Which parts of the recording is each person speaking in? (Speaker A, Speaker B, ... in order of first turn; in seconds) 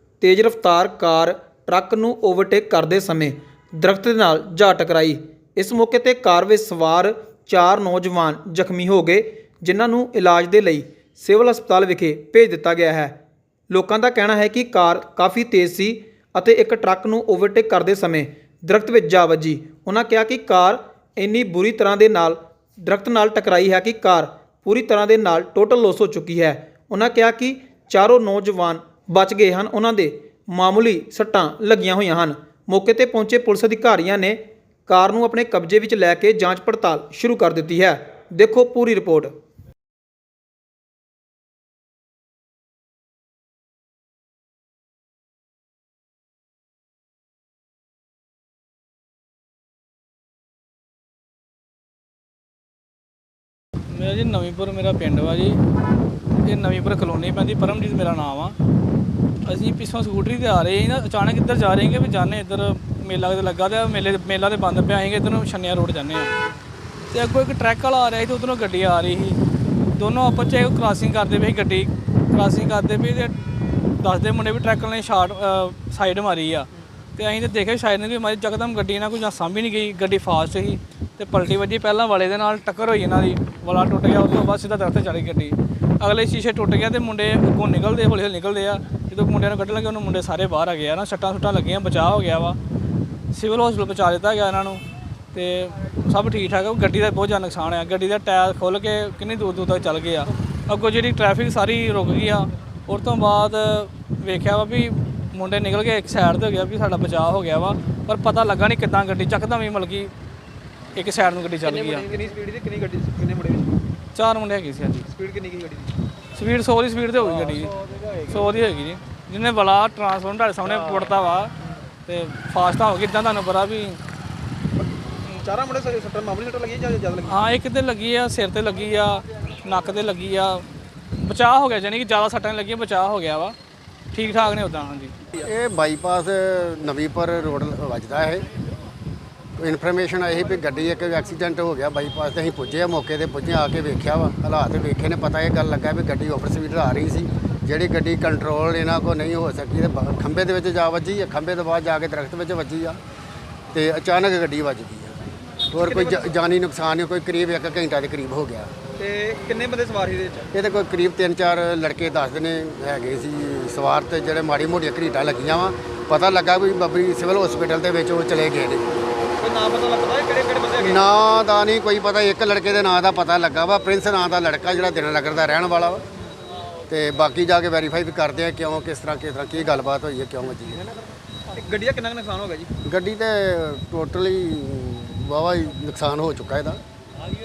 Speaker A: 0.2-13.2, 13.7-39.3, 111.7-113.8, 115.1-115.9, 125.2-127.4, 155.8-156.3, 159.0-160.5, 169.4-171.0, 181.5-182.7
Speaker B: 53.9-55.6, 56.4-58.5, 59.4-66.3, 67.1-69.4, 69.9-73.3, 74.0-92.6, 93.3-94.8, 95.3-110.1, 110.9-112.1, 114.1-115.0, 116.3-121.5, 122.0-124.0, 127.2-130.6, 131.2-133.5, 134.1-135.1
Speaker C: 135.4-138.5, 139.6-153.0, 153.7-158.7, 160.5-168.8, 170.8-176.0, 176.9-180.9, 182.8-186.8